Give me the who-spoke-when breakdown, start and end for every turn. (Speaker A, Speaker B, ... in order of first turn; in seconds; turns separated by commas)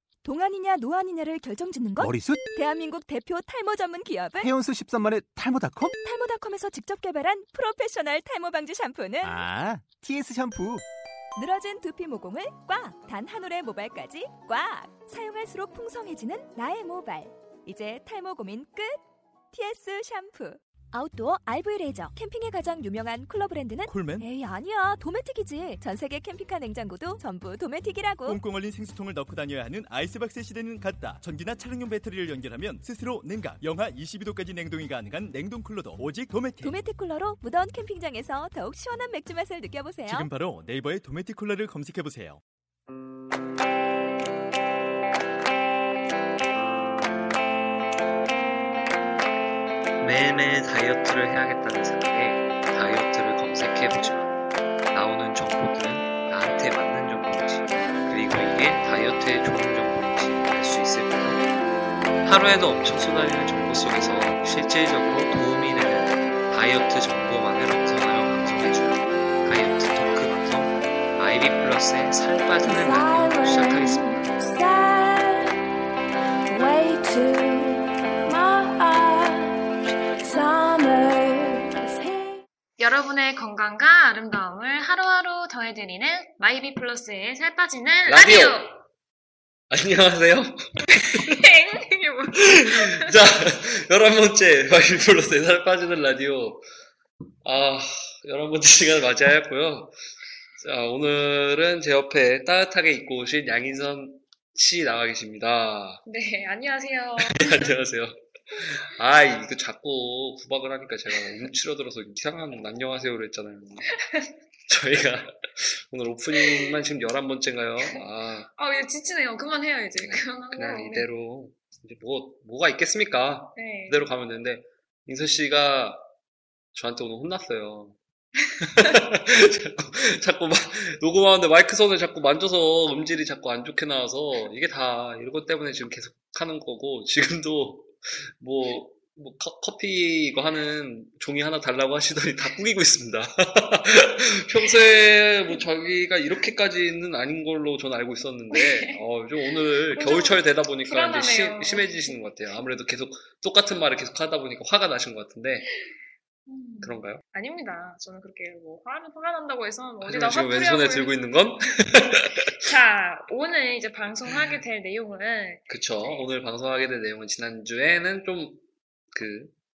Speaker A: 0.2-4.5, Speaker B: 2.0-2.4, Speaker B: 4.4-5.9, Speaker A: 5.8-9.4, Speaker B: 9.2-10.8, Speaker A: 11.3-19.0, Speaker A: 19.5-28.4, Speaker C: 23.9-24.3, Speaker C: 28.2-36.9, Speaker A: 36.6-40.3, Speaker C: 40.0-42.4, Speaker D: 50.0-54.3, Speaker D: 54.9-61.4, Speaker D: 62.2-74.1, Speaker A: 72.6-75.5, Speaker A: 76.5-79.5, Speaker A: 80.2-82.4, Speaker E: 82.8-88.8, Speaker D: 88.0-88.8, Speaker D: 89.7-91.3, Speaker E: 91.0-93.2, Speaker D: 92.6-96.7, Speaker D: 97.4-99.9, Speaker D: 100.6-106.0, Speaker E: 106.0-107.7, Speaker D: 107.2-113.9, Speaker E: 113.9-114.3, Speaker D: 114.7-118.5, Speaker E: 116.3-116.7, Speaker E: 118.5-121.1, Speaker D: 120.0-126.0, Speaker E: 123.5-124.1, Speaker D: 126.7-128.0, Speaker D: 128.6-155.7, Speaker E: 148.5-152.2, Speaker E: 156.4-161.2, Speaker D: 156.8-157.2, Speaker D: 160.0-162.5, Speaker E: 162.6-166.3, Speaker D: 165.7-169.5